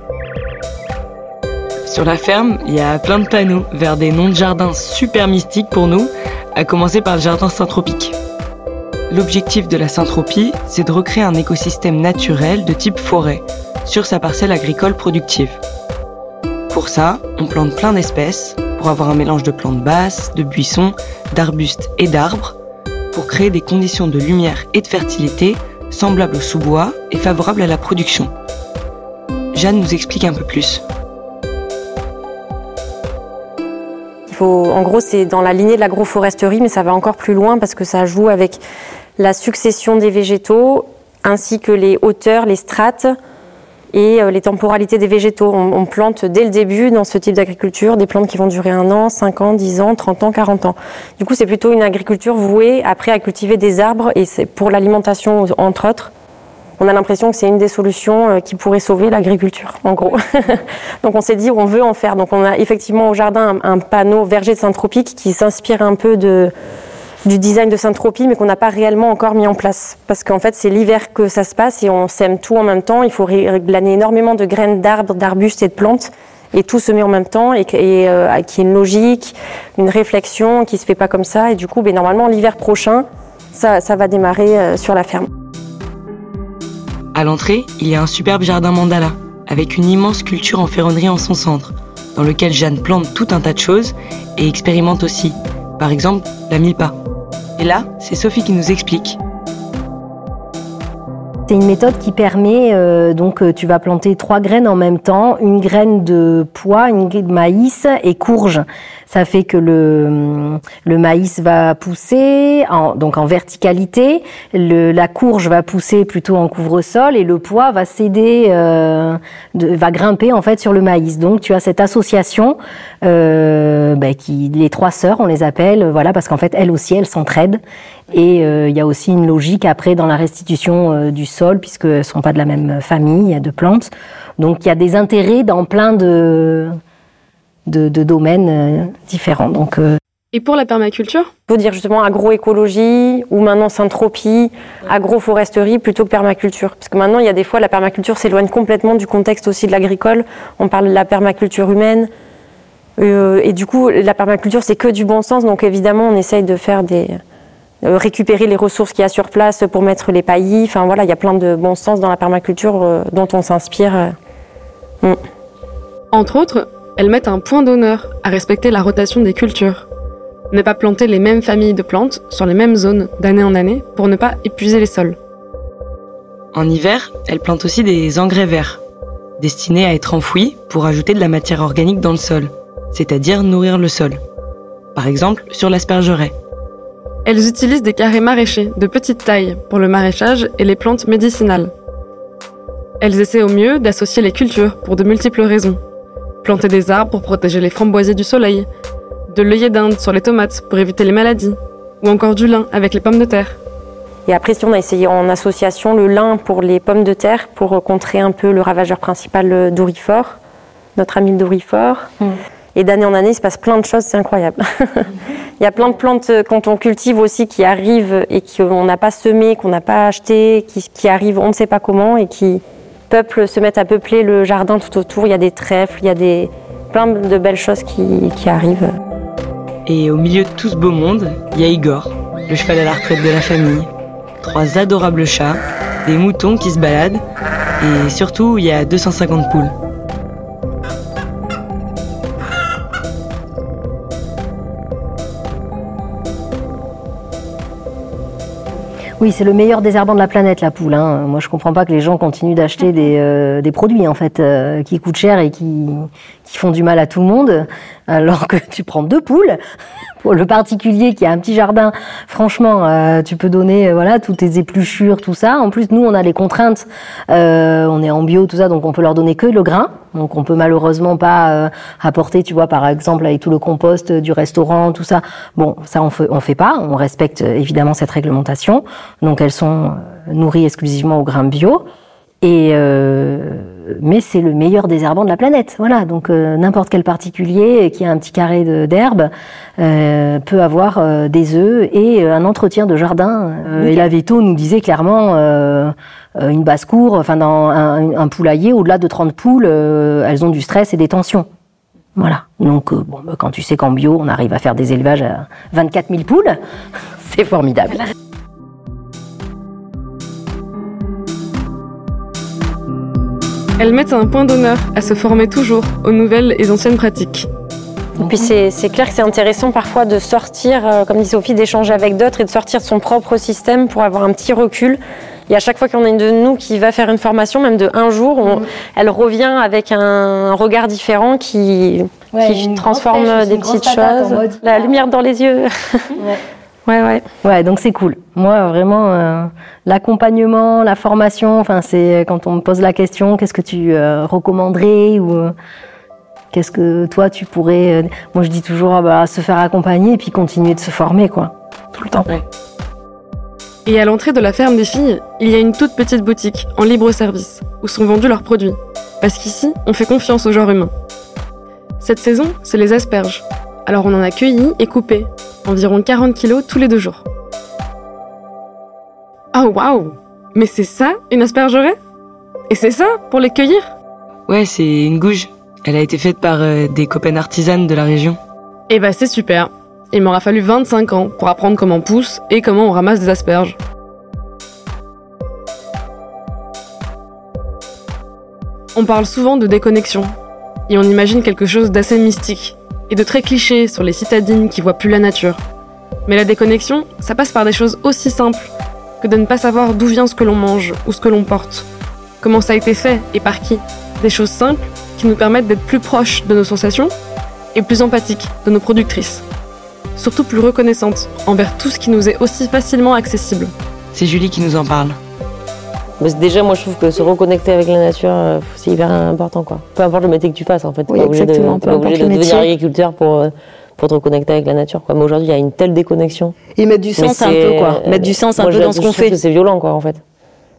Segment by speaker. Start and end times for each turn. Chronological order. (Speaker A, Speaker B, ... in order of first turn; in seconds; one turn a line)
Speaker A: 1.8-8.2
Speaker A: 9.1-15.6
Speaker A: 16.7-22.6
Speaker A: 23.1-28.3
Speaker A: 29.5-30.8
Speaker B: 34.3-38.6
Speaker B: 39.2-43.1
Speaker B: 43.9-56.1
Speaker B: 56.8-66.5
Speaker B: 67.2-85.3
Speaker A: 87.1-97.0
Speaker A: 97.6-99.2
Speaker C: 101.5-127.6
Speaker C: 128.1-136.7
Speaker C: 137.7-140.0
Speaker D: 140.3-141.3
Speaker B: 141.5-152.1
Speaker B: 153.0-157.2
Speaker B: 157.8-164.1
Speaker D: 166.1-169.9
Speaker D: 170.5-175.2
Speaker A: 176.5-178.8
Speaker A: 179.4-184.2
Speaker A: 184.9-186.3
Speaker D: 187.2-191.7
Speaker D: 193.0-195.8
Speaker D: 196.4-198.7
Speaker D: 199.3-203.6
Speaker B: 204.3-210.4
Speaker B: 210.9-212.1
Speaker B: 212.7-228.9
Speaker A: 229.8-233.9
Speaker A: 234.4-237.2
Speaker A: 237.8-239.7
Speaker C: 249.2-259.6
Speaker C: 260.2-281.9
Speaker C: 282.4-301.5
Speaker C: 302.2-306.6
Speaker C: 307.2-308.0
Speaker D: 313.8-317.5
Speaker B: 318.2-336.2
Speaker C: 318.2-318.5
Speaker C: 332.3-334.8
Speaker B: 336.9-337.2
Speaker C: 337.4-345.5
Speaker C: 346.5-352.3
Speaker D: 353.9-360.9
Speaker D: 362.0-367.2
Speaker D: 369.5-372.0
Speaker D: 372.7-373.9
Speaker A: 374.5-378.4
Speaker D: 378.9-383.8
Speaker D: 388.9-390.3
Speaker D: 390.9-395.6
Speaker D: 396.2-401.9
Speaker D: 402.4-407.1
Speaker D: 407.7-409.4
Speaker D: 410.2-413.7
Speaker A: 414.1-415.2
Speaker E: 416.2-426.5
Speaker F: 421.1-422.7
Speaker F: 426.8-429.4
Speaker E: 427.2-430.2